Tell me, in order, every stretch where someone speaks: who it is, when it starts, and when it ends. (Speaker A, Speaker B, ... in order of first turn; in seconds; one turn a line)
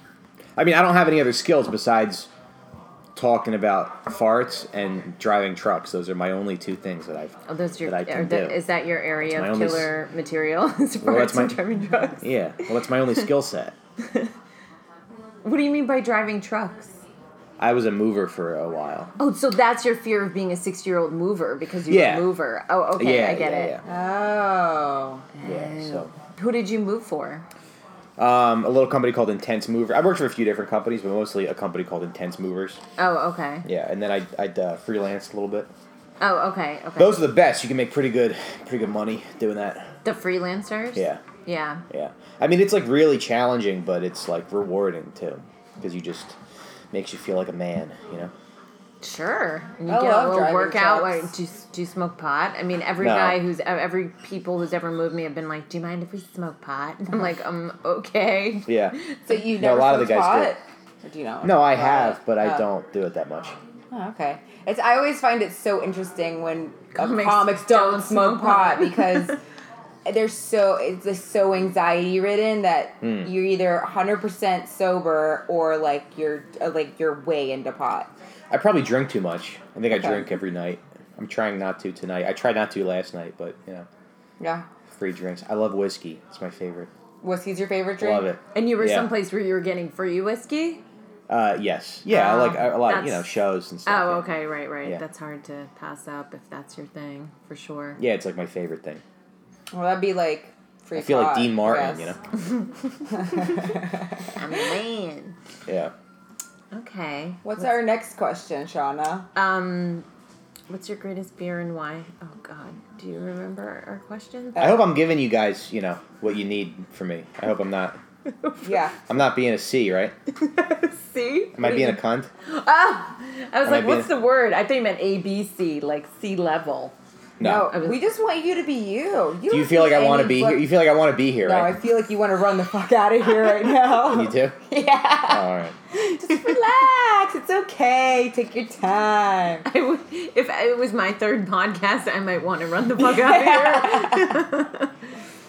Speaker A: 0.6-2.3
Speaker A: 3.1-8.6
Speaker B: 7.5-12.7
Speaker A: 9.3-9.9
Speaker A: 11.0-11.6
Speaker A: 12.2-13.8
Speaker B: 14.0-14.3
Speaker B: 15.4-17.0
Speaker A: 17.6-19.1
Speaker B: 19.2-23.8
Speaker A: 21.9-22.3
Speaker A: 23.0-23.8
Speaker C: 23.8-25.2
Speaker B: 25.3-27.4
Speaker A: 25.4-26.1
Speaker A: 28.2-32.8
Speaker B: 33.0-33.7
Speaker A: 33.6-35.7
Speaker B: 36.2-37.2
Speaker A: 37.0-39.9
Speaker B: 40.0-41.8
Speaker A: 40.9-41.2
Speaker A: 41.9-46.4
Speaker A: 46.9-48.3
Speaker B: 49.0-59.4
Speaker C: 49.9-51.3
Speaker A: 53.0-53.4
Speaker A: 58.7-60.5
Speaker C: 59.3-62.6
Speaker A: 61.4-63.5
Speaker C: 63.9-69.3
Speaker B: 67.0-69.3
Speaker C: 70.0-78.1
Speaker A: 73.0-73.3
Speaker A: 78.5-83.9
Speaker C: 79.9-80.3
Speaker C: 84.4-84.7
Speaker A: 84.9-86.9
Speaker C: 87.2-88.3
Speaker A: 88.0-89.1
Speaker B: 88.5-90.8
Speaker A: 91.3-94.2
Speaker B: 92.1-93.3
Speaker B: 93.8-98.0
Speaker A: 98.0-99.0
Speaker C: 99.7-102.1
Speaker A: 101.0-102.2
Speaker C: 103.1-104.3
Speaker B: 104.3-105.3
Speaker A: 105.7-105.9
Speaker B: 106.7-107.7
Speaker C: 107.4-109.3
Speaker B: 109.3-110.0
Speaker B: 110.7-114.8
Speaker C: 114.6-114.8
Speaker A: 114.6-118.0
Speaker B: 118.4-118.7
Speaker C: 118.6-119.0
Speaker A: 119.1-120.1
Speaker B: 120.4-126.9
Speaker A: 121.5-122.3
Speaker A: 123.6-124.1
Speaker A: 127.4-127.7
Speaker C: 127.4-130.7
Speaker B: 127.5-128.0
Speaker A: 129.5-131.8
Speaker C: 131.4-139.6
Speaker A: 134.0-134.6
Speaker A: 135.3-135.8
Speaker B: 139.7-144.9
Speaker C: 143.0-144.4